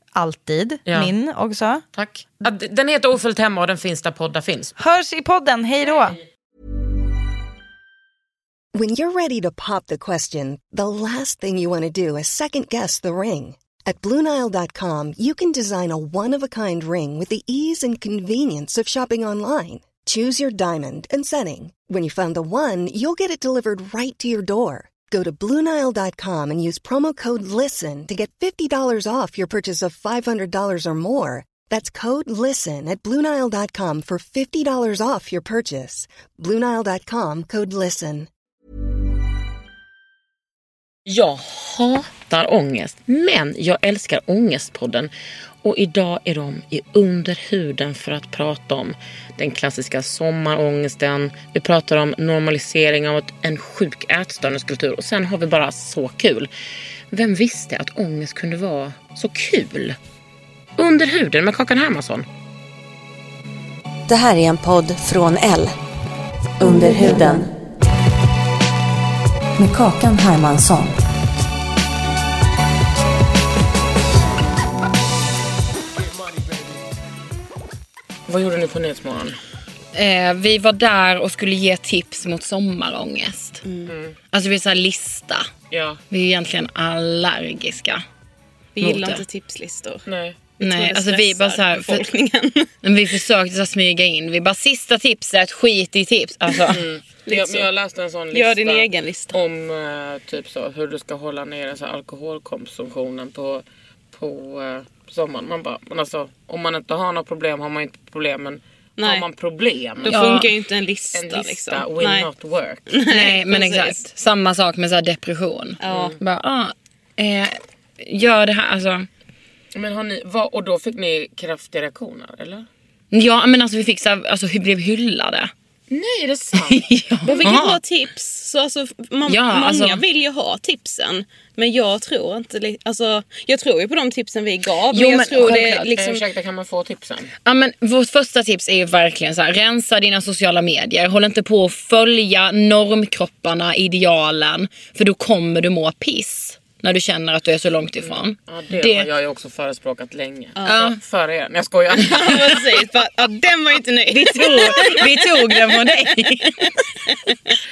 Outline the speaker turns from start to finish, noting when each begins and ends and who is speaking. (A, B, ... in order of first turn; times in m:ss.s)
0:00.1-0:01.8 A
0:00.9-0:01.1 B
0:01.9-0:04.8 B
0:04.8-0:06.2 A
0:08.7-0:38.3 C
0:41.1-0:45.1 B
0:45.6-0:56.5 B
0:57.1-1:00.0 B
1:00.8-1:02.3 B
1:04.1-1:05.8 D
1:06.6-1:07.5 D
1:09.6-1:11.0 D
1:18.3-1:19.4 B
1:19.9-1:23.6 E
1:23.6-1:23.9 F
1:23.9-1:24.2 B
1:24.3-1:25.5 E
1:25.7-1:26.0 B
1:26.1-1:28.0 E
1:28.8-1:30.0 F
1:28.8-1:29.2 E
1:30.1-1:30.4 B
1:30.6-1:32.7 F
1:30.6-1:32.0 E
1:32.8-1:36.8 E
1:36.7-1:50.2 B
1:37.2-1:37.7 F
1:38.3-1:39.4 F
1:49.0-1:49.2 F
1:50.0-1:52.3 F
1:50.1-1:50.5 E
1:51.2-1:52.9 B
1:52.9-1:54.0 F
1:53.1-1:59.1 E
1:55.8-1:56.2 F
1:55.9-1:56.2 B
1:59.7-2:02.7 B
2:03.1-2:05.5 E
2:05.9-2:07.6 B
2:06.5-2:07.8 E
2:07.3-2:16.2 F
2:09.3-2:10.0 E
2:14.9-2:15.9 E
2:15.4-2:17.3 B
2:17.4-2:29.1 E
2:28.0-2:32.7 B
2:30.6-2:30.9 F
2:30.7-2:31.0 E
2:32.0-2:37.6 F
2:34.1-2:36.7 E